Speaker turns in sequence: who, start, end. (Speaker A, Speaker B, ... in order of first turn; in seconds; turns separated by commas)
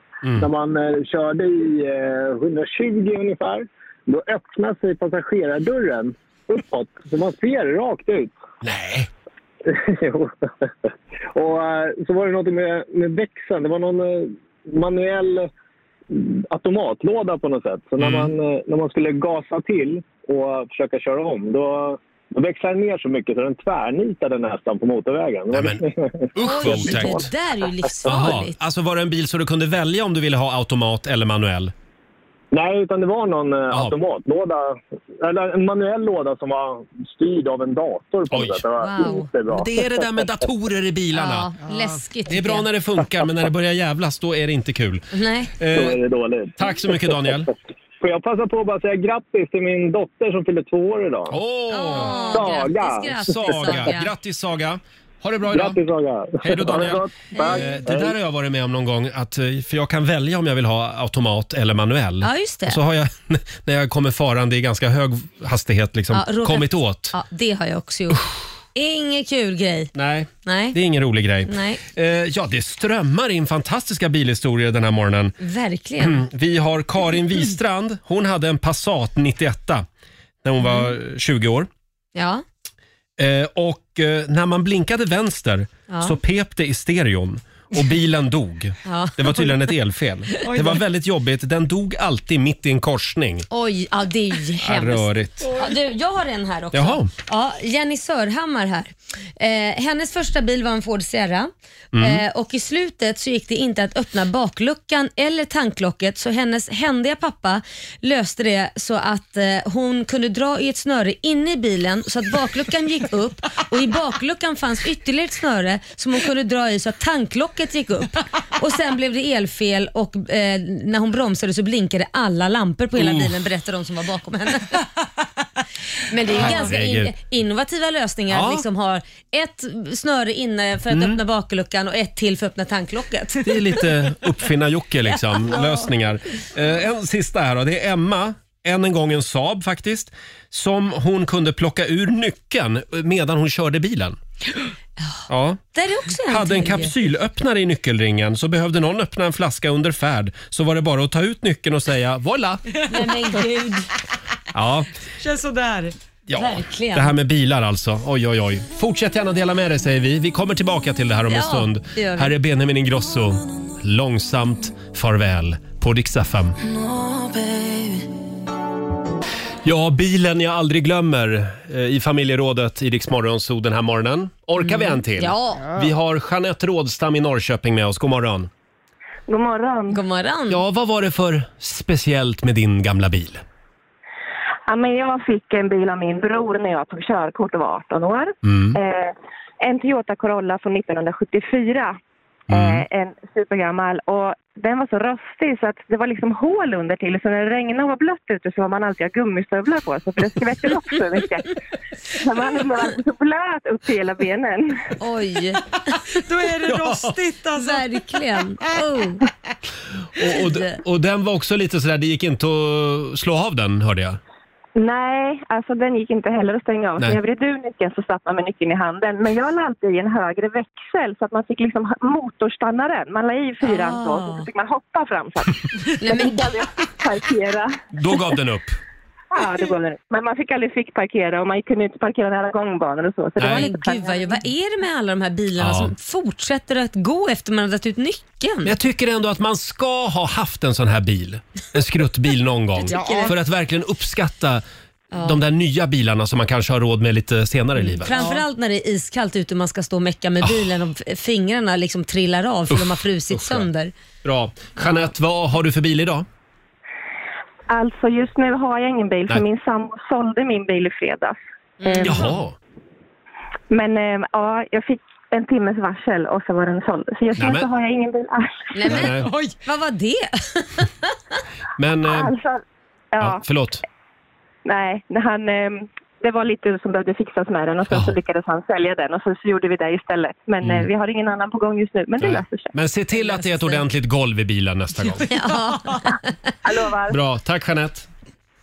Speaker A: 0.4-8.3, Speaker B: 8.6-9.1, Speaker A: 9.7-10.5, Speaker A: 11.3-15.5, Speaker A: 16.1-27.3, Speaker B: 18.0-18.3, Speaker B: 25.5-25.8, Speaker B: 26.3-27.3, Speaker C: 26.4-28.5, Speaker B: 28.1-31.7, Speaker A: 32.5-40.4, Speaker B: 38.3-38.6, Speaker C: 38.8-39.3, Speaker B: 39.5-41.5, Speaker C: 41.1-42.7, Speaker B: 42.3-45.1, Speaker C: 45.1-45.5, Speaker B: 45.6-46.0, Speaker A: 45.7-51.4, Speaker B: 46.6-47.5, Speaker B: 51.3-52.5, Speaker C: 51.7-54.1, Speaker A: 52.0-53.9, Speaker B: 53.2-55.8, Speaker A: 55.5-58.2, Speaker B: 56.4-67.2, Speaker C: 57.4-57.8, Speaker C: 62.2-62.8, Speaker C: 66.1-69.9, Speaker B: 70.0-75.3, Speaker C: 70.5-70.8, Speaker C: 71.5-71.8, Speaker C: 75.4-76.2, Speaker B: 76.0-79.8, Speaker B: 80.4-81.7, Speaker C: 82.2-82.4, Speaker B: 83.2-93.5, Speaker C: 85.9-86.2, Speaker C: 88.8-89.7, Speaker D: 90.5-90.8, Speaker C: 93.5-124.9, Speaker B: 94.6-95.5, Speaker B: 96.7-97.1, Speaker B: 101.9-102.2, Speaker B: 123.0-123.3, Speaker C: 126.1-133.9, Speaker B: 126.3-127.1, Speaker B: 128.3-128.6, Speaker B: 130.9-131.2, Speaker B: 133.4-144.2, Speaker C: 135.4-135.8, Speaker B: 145.3-145.6, Speaker C: 145.8-146.9, Speaker B: 146.3-152.6, Speaker C: 152.9-153.9, Speaker B: 154.5-154.9, Speaker D: 155.2-155.9, Speaker B: 156.3-166.6, Speaker C: 156.4-157.1, Speaker C: 161.3-162.3, Speaker B: 169.7-178.5, Speaker C: 174.6-175.7, Speaker E: 179.3-180.0, Speaker C: 179.9-180.6, Speaker B: 180.5-183.4, Speaker E: 184.7-192.0, Speaker B: 188.4-188.8, Speaker B: 192.5-192.8, Speaker E: 192.5-201.6, Speaker E: 202.1-204.9, Speaker C: 205.0-206.0, Speaker D: 206.1-208.1, Speaker B: 206.7-207.2, Speaker C: 207.6-209.2, Speaker B: 210.1-214.2, Speaker C: 210.3-210.7, Speaker E: 214.8-227.8, Speaker C: 223.6-224.5, Speaker C: 226.0-226.7, Speaker B: 227.9-228.8, Speaker E: 229.3-234.4, Speaker B: 233.4-233.7, Speaker C: 233.4-238.7, Speaker B: 235.6-235.9, Speaker B: 238.7-244.6, Speaker C: 242.8-243.3, Speaker D: 242.9-243.3, Speaker C: 245.1-245.4, Speaker B: 245.2-248.2, Speaker C: 247.8-253.9, Speaker D: 248.1-248.4, Speaker B: 250.4-250.7, Speaker B: 252.7-253.7, Speaker B: 254.2-256.3, Speaker E: 257.7-261.4, Speaker C: 261.8-262.3, Speaker E: 261.9-262.2, Speaker B: 262.0-262.6, Speaker E: 263.7-268.7, Speaker B: 267.4-267.7, Speaker C: 268.7-271.4, Speaker B: 268.9-269.3, Speaker D: 269.1-269.5, Speaker B: 271.8-272.3, Speaker E: 272.1-272.6, Speaker E: 273.1-273.4, Speaker B: 273.2-273.8, Speaker E: 274.6-282.7, Speaker B: 277.9-278.2, Speaker B: 280.6-280.9, Speaker B: 282.2-285.3, Speaker C: 283.2-283.8, Speaker C: 285.3-286.3, Speaker E: 286.6-287.2, Speaker B: 287.1-288.1